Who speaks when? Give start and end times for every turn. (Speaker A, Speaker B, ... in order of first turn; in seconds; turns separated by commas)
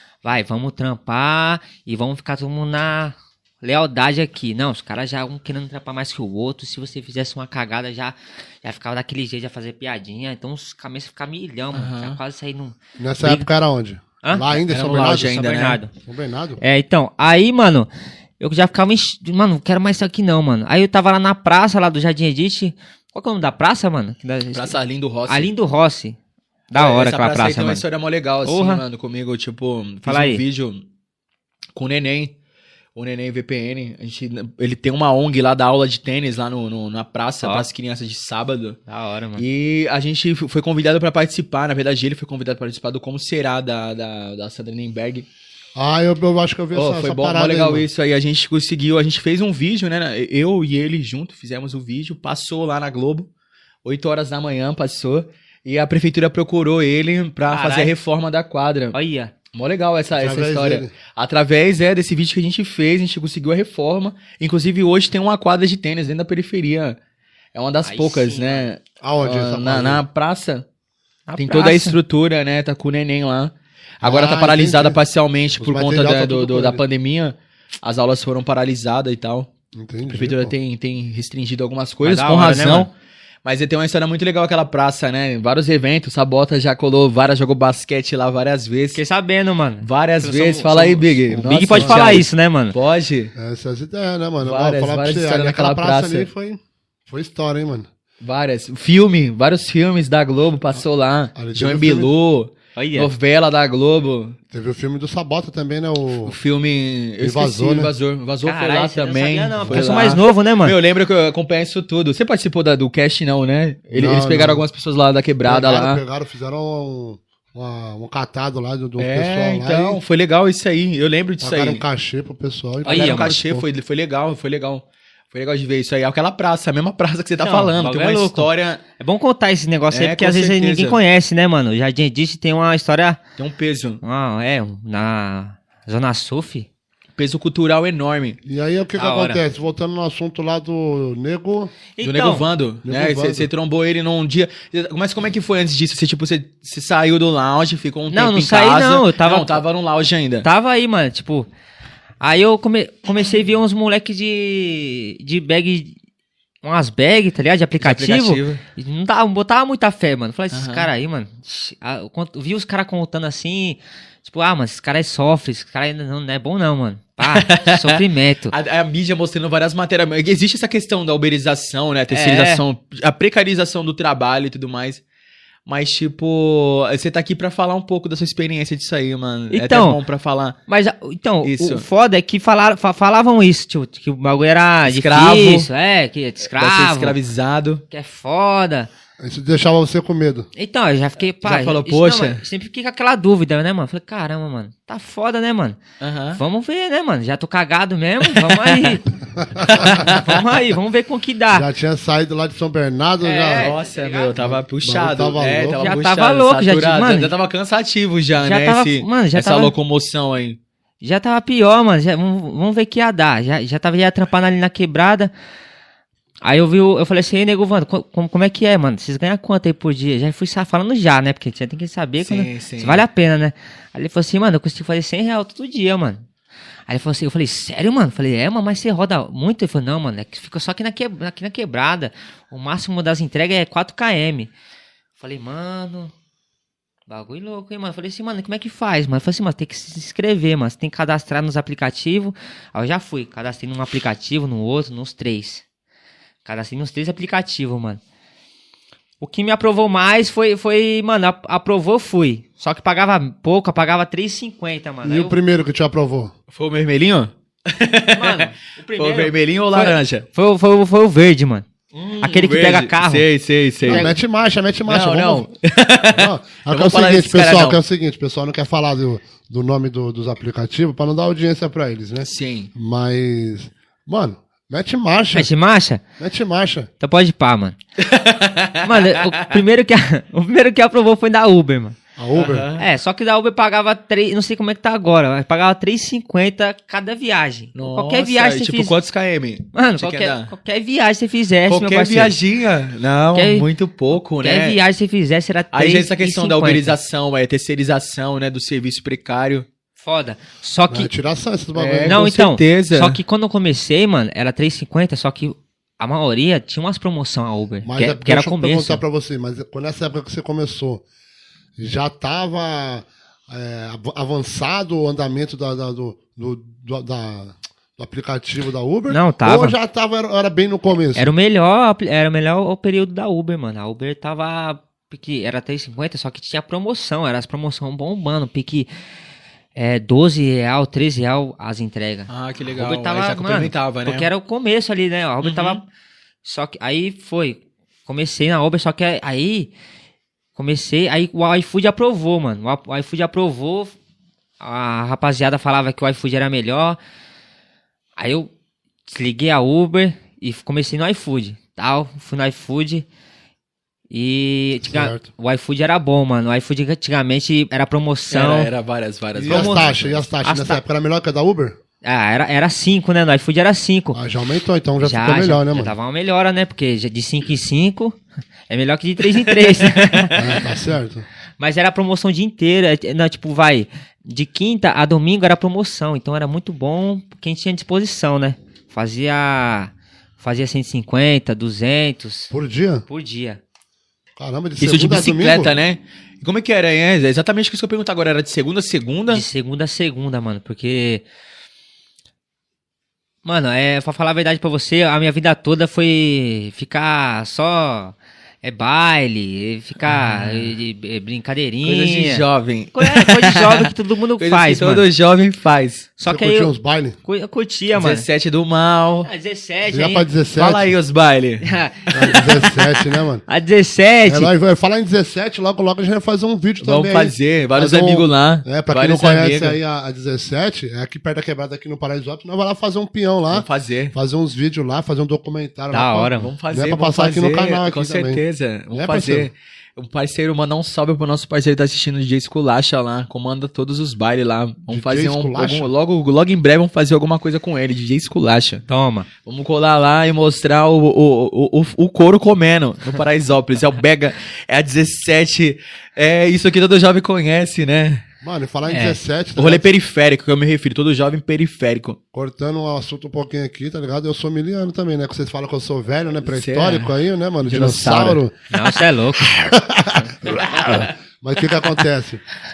Speaker A: 0.2-13.5, Speaker B: 11.7-12.2, Speaker C: 13.0-15.4, Speaker B: 14.6-15.8, Speaker A: 15.2-15.9, Speaker C: 15.9-16.6, Speaker A: 16.6-26.2, Speaker B: 24.5-25.5, Speaker A: 26.7-27.8, Speaker B: 26.7-30.8, Speaker A: 28.4-28.8, Speaker A: 30.0-30.4, Speaker B: 31.8-32.3, Speaker B: 33.0-38.8, Speaker A: 38.9-39.4, Speaker B: 39.4-45.2, Speaker C: 45.7-47.9, Speaker B: 46.7-53.3, Speaker B: 53.8-59.0, Speaker A: 57.5-57.9, Speaker A: 58.9-59.3, Speaker B: 59.5-67.0, Speaker C: 60.2-60.9, Speaker B: 67.5-70.7, Speaker A: 67.8-68.7, Speaker C: 69.0-70.0, Speaker A: 71.3-72.0, Speaker B: 71.4-79.5, Speaker C: 74.0-75.0, Speaker C: 75.6-76.8, Speaker C: 79.7-80.5, Speaker B: 80.1-82.9, Speaker A: 82.0-82.9, Speaker B: 83.4-89.0, Speaker A: 88.9-92.7, Speaker B: 89.8-93.3, Speaker C: 91.3-92.2, Speaker C: 93.3-97.9, Speaker B: 94.4-96.3, Speaker B: 98.2-104.4, Speaker C: 101.3-102.1, Speaker A: 102.8-103.1, Speaker C: 104.5-106.3, Speaker B: 106.2-116.0, Speaker C: 107.2-107.9, Speaker A: 108.4-110.8, Speaker C: 109.6-109.9, Speaker C: 113.9-114.6, Speaker C: 115.4-120.0, Speaker B: 119.0-121.8, Speaker C: 121.4-123.6, Speaker A: 122.8-123.4, Speaker B: 122.8-128.8, Speaker A: 127.4-133.2, Speaker B: 129.9-131.0, Speaker B: 133.4-134.0, Speaker A: 134.0-136.7, Speaker B: 137.2-138.4, Speaker C: 138.4-141.7, Speaker A: 138.9-139.4, Speaker A: 142.0-142.4, Speaker B: 142.0-150.5, Speaker C: 142.8-143.5, Speaker A: 148.1-149.6, Speaker A: 150.4-151.5, Speaker A: 152.2-155.9, Speaker A: 156.6-168.5, Speaker B: 157.8-158.6, Speaker B: 160.5-160.9, Speaker B: 167.2-175.0, Speaker A: 172.1-172.6, Speaker B: 175.7-180.6, Speaker A: 179.5-180.0, Speaker A: 180.7-187.2, Speaker B: 181.4-181.8, Speaker B: 184.8-185.7, Speaker B: 186.6-187.8, Speaker A: 187.9-188.9, Speaker C: 189.2-190.5, Speaker A: 190.6-195.8, Speaker B: 191.4-192.4, Speaker B: 196.0-196.4, Speaker A: 196.3-199.1, Speaker B: 198.2-198.9, Speaker C: 199.4-200.1, Speaker B: 199.6-200.4, Speaker A: 199.7-201.7, Speaker C: 201.5-203.8, Speaker A: 203.2-204.3, Speaker B: 203.6-210.6, Speaker C: 204.3-205.8, Speaker A: 205.8-207.3, Speaker A: 208.4-209.7, Speaker A: 211.0-215.3, Speaker A: 216.4-226.2, Speaker B: 222.2-223.0, Speaker A: 226.9-234.5, Speaker A: 235.2-236.1, Speaker A: 237.1-245.6, Speaker A: 246.4-248.0, Speaker A: 249.2-255.4, Speaker C: 255.0-256.3, Speaker B: 256.5-260.2, Speaker A: 258.1-263.2, Speaker B: 261.9-264.1, Speaker C: 263.9-265.5, Speaker A: 263.9-264.1, Speaker B: 264.9-267.8, Speaker C: 266.1-275.5, Speaker B: 272.2-272.7, Speaker A: 275.3-276.0, Speaker C: 276.2-276.9, Speaker A: 277.0-277.8, Speaker B: 278.0-279.5, Speaker A: 278.8-282.0, Speaker C: 282.2-282.6, Speaker B: 282.3-282.8, Speaker A: 282.8-288.9, Speaker B: 287.7-290.5, Speaker A: 289.7-292.3, Speaker B: 291.7-294.8, Speaker A: 293.3-296.9, Speaker B: 295.7-299.6, Speaker A: 300.0-301.1, Speaker C: 300.9-302.2, Speaker B: 301.7-303.2, Speaker A: 302.1-309.0, Speaker C: 307.8-311.0, Speaker C: 311.8-321.3, Speaker A: 319.1-319.8, Speaker A: 321.1-328.9, Speaker A: 329.7-335.8, Speaker B: 332.3-334.3, Speaker B: 335.4-335.8, Speaker A: 336.4-339.7, Speaker A: 340.5-343.9, Speaker A: 344.6-347.0, Speaker A: 348.2-348.5, Speaker A: 349.1-353.1, Speaker A: 354.1-358.7, Speaker C: 354.8-355.3, Speaker B: 358.3-360.2, Speaker C: 359.4-361.8, Speaker A: 359.4-360.8, Speaker A: 362.0-364.2, Speaker C: 364.1-365.9, Speaker A: 365.0-370.6, Speaker C: 370.4-371.2, Speaker A: 371.6-382.5, Speaker C: 382.5-383.0, Speaker A: 383.1-383.6, Speaker C: 384.4-385.7, Speaker B: 384.8-389.4, Speaker A: 389.3-391.2, Speaker A: 393.4-405.1, Speaker B: 400.1-400.7, Speaker B: 401.8-406.1, Speaker A: 406.2-406.7, Speaker C: 406.3-407.2, Speaker A: 407.2-408.2, Speaker B: 407.9-409.3, Speaker A: 409.2-410.3, Speaker C: 409.9-410.9, Speaker B: 410.5-411.7, Speaker A: 411.6-412.6, Speaker C: 412.1-413.4, Speaker A: 413.5-414.5, Speaker C: 414.2-429.5, Speaker B: 416.8-419.8, Speaker B: 423.5-424.1, Speaker A: 425.9-426.5, Speaker B: 426.4-438.8, Speaker C: 434.9-435.9, Speaker A: 438.9-439.3, Speaker B: 439.4-448.2, Speaker C: 448.4-449.9, Speaker A: 448.9-449.2, Speaker B: 449.6-452.2, Speaker C: 452.3-458.5, Speaker B: 456.4-458.4, Speaker A: 458.7-459.5, Speaker C: 459.4-462.4